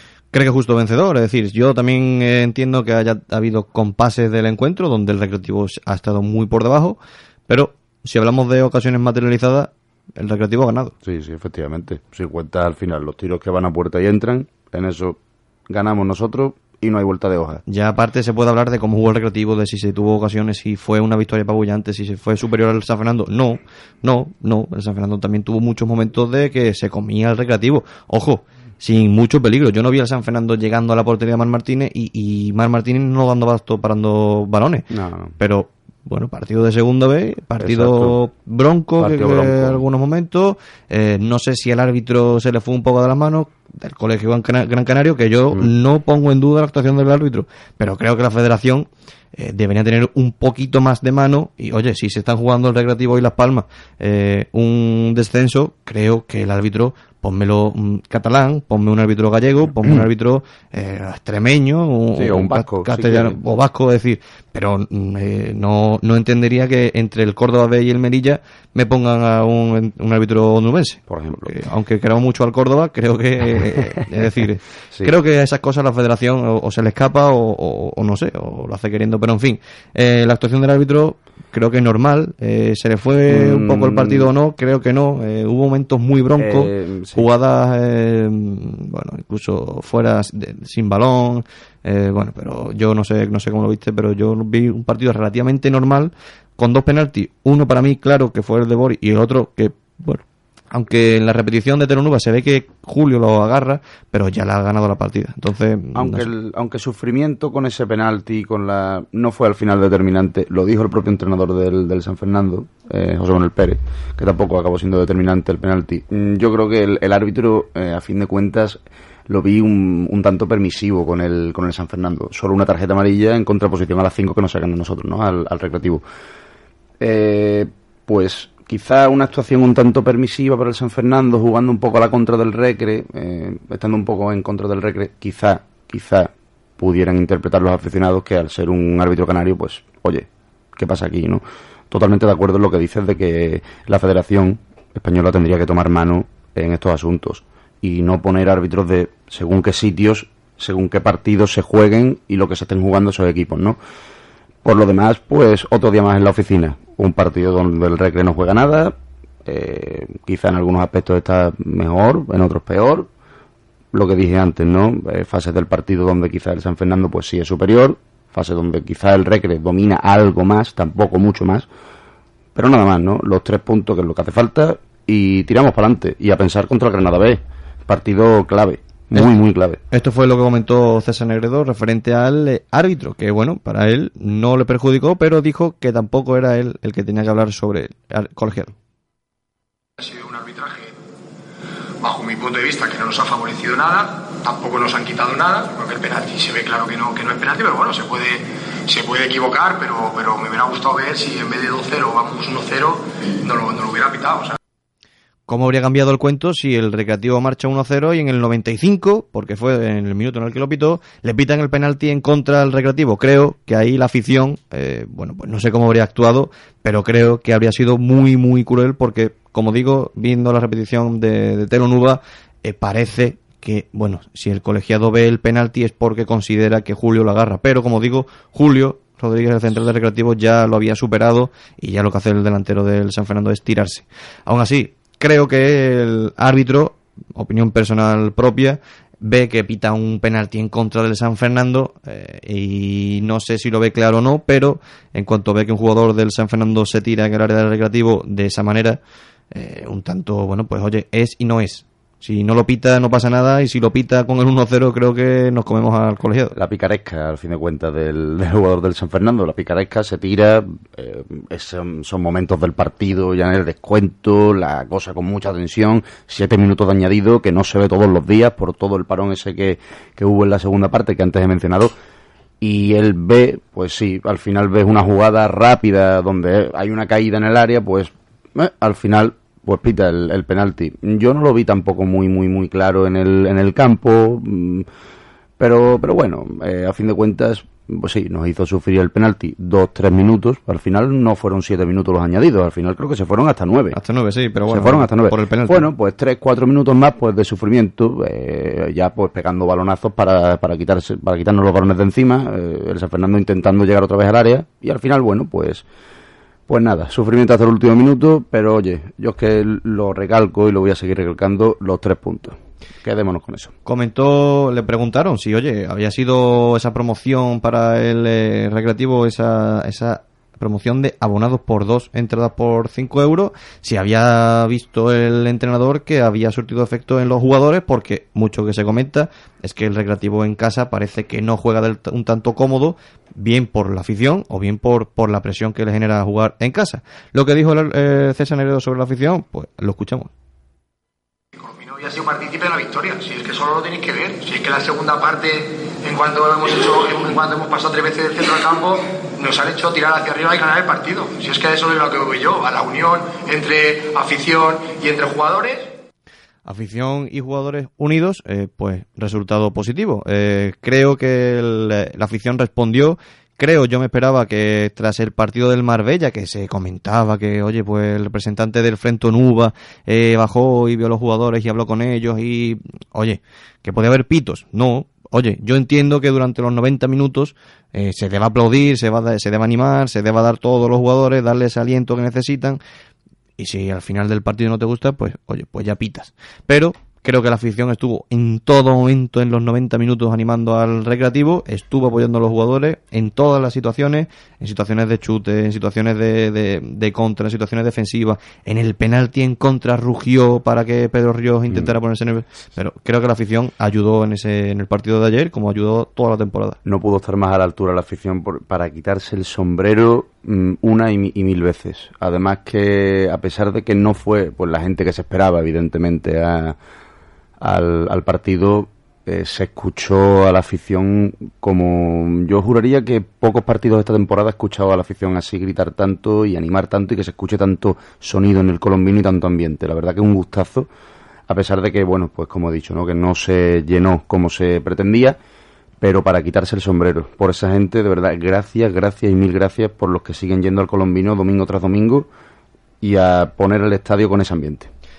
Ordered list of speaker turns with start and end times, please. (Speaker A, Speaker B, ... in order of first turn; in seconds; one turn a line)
Speaker A: 0.3-10.9
Speaker B: 11.0-17.6
Speaker A: 17.7-34.9
Speaker B: 34.9-35.4
Speaker A: 35.4-106.3
Speaker B: 37.6-38.2
Speaker B: 39.0-39.8
Speaker B: 62.1-63.4
Speaker B: 71.1-71.5
Speaker B: 83.3-84.3
Speaker B: 86.4-87.3
Speaker B: 105.9-126.0
Speaker B: 127.0-153.8
Speaker B: 154.6-163.1
Speaker B: 163.9-171.7
Speaker B: 172.5-179.8
Speaker A: 179.9-188.7
Speaker C: 190.0-190.9
Speaker C: 192.0-204.6
Speaker A: 205.5-249.0
Speaker A: 249.5-256.5
Speaker B: 256.5-271.9
Speaker B: 272.6-284.9
Speaker B: 285.6-294.0
Speaker A: 293.9-295.9
Speaker B: 294.7-305.8
Speaker B: 306.7-313.7
Speaker A: 313.9-340.3
Speaker C: 341.6-355.9
Speaker A: 356.6-382.8
Speaker A: 383.6-406.8
Speaker B: 406.8-416.8
Speaker B: 417.6-430.9
Speaker B: 431.5-435.4
Speaker B: 436.0-442.3
Speaker B: 443.0-444.9